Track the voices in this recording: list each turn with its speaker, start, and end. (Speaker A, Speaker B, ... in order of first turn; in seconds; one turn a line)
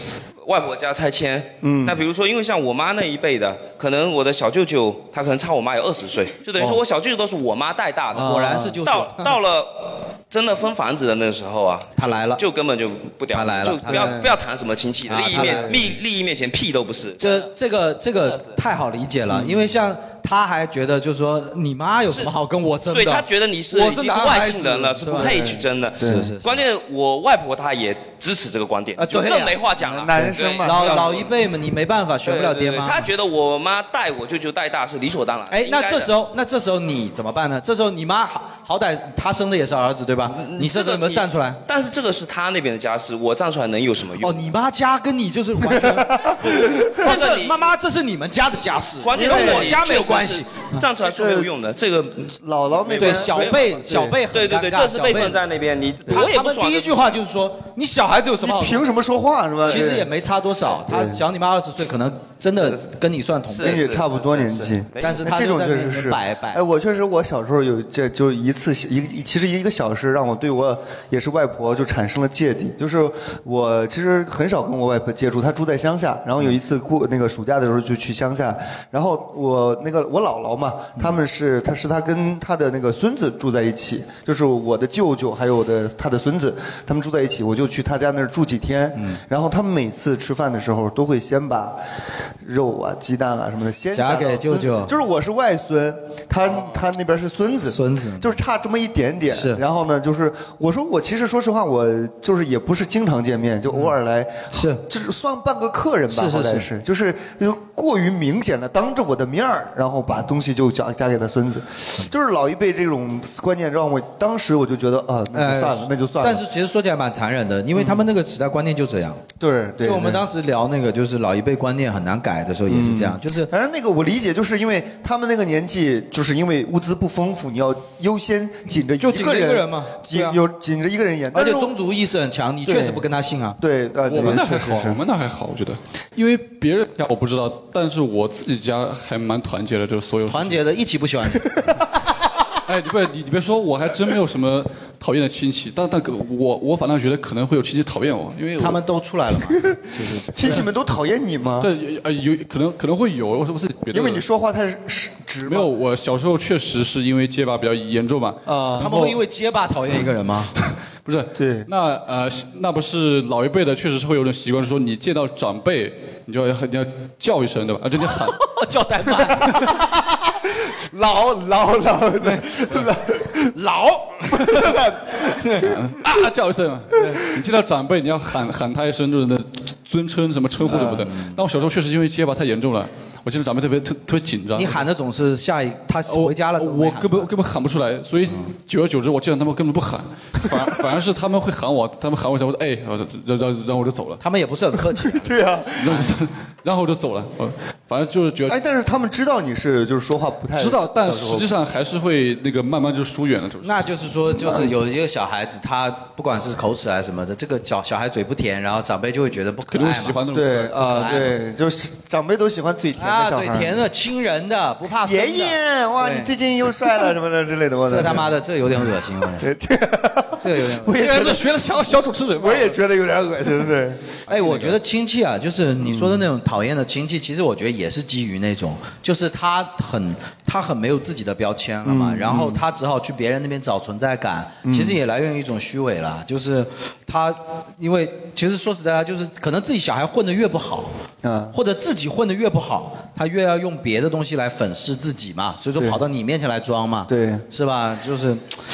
Speaker A: 0.4-17.5
Speaker B: 1.6-2.0
Speaker B: 8.1-8.8
Speaker C: 8.2-9.3
Speaker C: 11.9-12.4
Speaker C: 13.3-14.2
Speaker B: 13.9-14.4
Speaker C: 15.1-15.9
Speaker B: 15.3-15.7
Speaker C: 17.2-25.4
Speaker B: 19.3-19.7
Speaker A: 22.9-31.4
Speaker B: 25.1-26.3
Speaker C: 26.0-26.6
Speaker C: 28.9-33.0
Speaker B: 29.8-31.2
Speaker A: 32.2-36.1
Speaker C: 35.5-41.6
Speaker A: 40.3-44.4
Speaker C: 44.2-50.8
Speaker B: 45.7-47.1
Speaker A: 46.6-47.7
Speaker A: 49.0-52.3
Speaker B: 49.1-49.8
Speaker B: 51.0-51.5
Speaker B: 52.4-54.2
Speaker A: 52.8-53.7
Speaker C: 53.0-55.4
Speaker A: 54.3-57.2
Speaker C: 56.1-58.9
Speaker B: 58.4-60.1
Speaker C: 59.6-63.9
Speaker B: 60.9-61.2
Speaker A: 63.5-65.2
Speaker B: 63.6-91.8
Speaker C: 65.0-66.6
Speaker C: 89.0-89.2
Speaker B: 92.4-116.4
Speaker C: 93.9-95.0
Speaker C: 97.7-98.4
Speaker C: 99.3-99.6
Speaker C: 104.5-104.8
Speaker C: 106.1-106.7
Speaker C: 115.3-119.2
Speaker B: 117.7-118.0
Speaker B: 119.4-120.2
Speaker C: 119.8-123.5
Speaker B: 122.7-131.7
Speaker C: 129.0-130.4
Speaker C: 131.3-133.6
Speaker B: 132.6-133.0
Speaker B: 133.6-135.0
Speaker D: 134.1-140.6
Speaker C: 140.3-141.5
Speaker D: 142.6-148.8
Speaker C: 148.6-150.6
Speaker B: 150.3-151.7
Speaker D: 151.6-154.2
Speaker B: 153.9-155.7
Speaker D: 155.4-159.1
Speaker B: 158.4-159.2
Speaker C: 158.8-160.5
Speaker D: 161.0-168.4
Speaker B: 161.3-161.7
Speaker C: 168.0-169.8
Speaker B: 169.2-173.5
Speaker C: 172.2-172.9
Speaker C: 173.4-175.6
Speaker B: 174.4-175.5
Speaker D: 175.6-184.8
Speaker C: 180.6-181.4
Speaker B: 180.7-181.0
Speaker C: 184.5-187.3
Speaker D: 186.1-194.2
Speaker C: 194.2-195.3
Speaker B: 195.0-196.1
Speaker D: 195.8-198.6
Speaker B: 198.5-201.5
Speaker D: 200.6-203.9
Speaker C: 203.6-210.2
Speaker B: 204.4-204.7
Speaker D: 209.7-211.2
Speaker B: 210.3-213.8
Speaker C: 210.8-211.3
Speaker C: 212.9-216.3
Speaker B: 215.0-221.7
Speaker C: 217.9-219.5
Speaker C: 220.4-221.0
Speaker D: 220.9-222.8
Speaker B: 222.4-224.0
Speaker D: 224.3-224.8
Speaker C: 224.3-240.9
Speaker B: 225.8-226.3
Speaker B: 231.8-232.6
Speaker B: 234.6-235.0
Speaker B: 241.2-241.5
Speaker C: 241.5-248.4
Speaker B: 247.1-247.4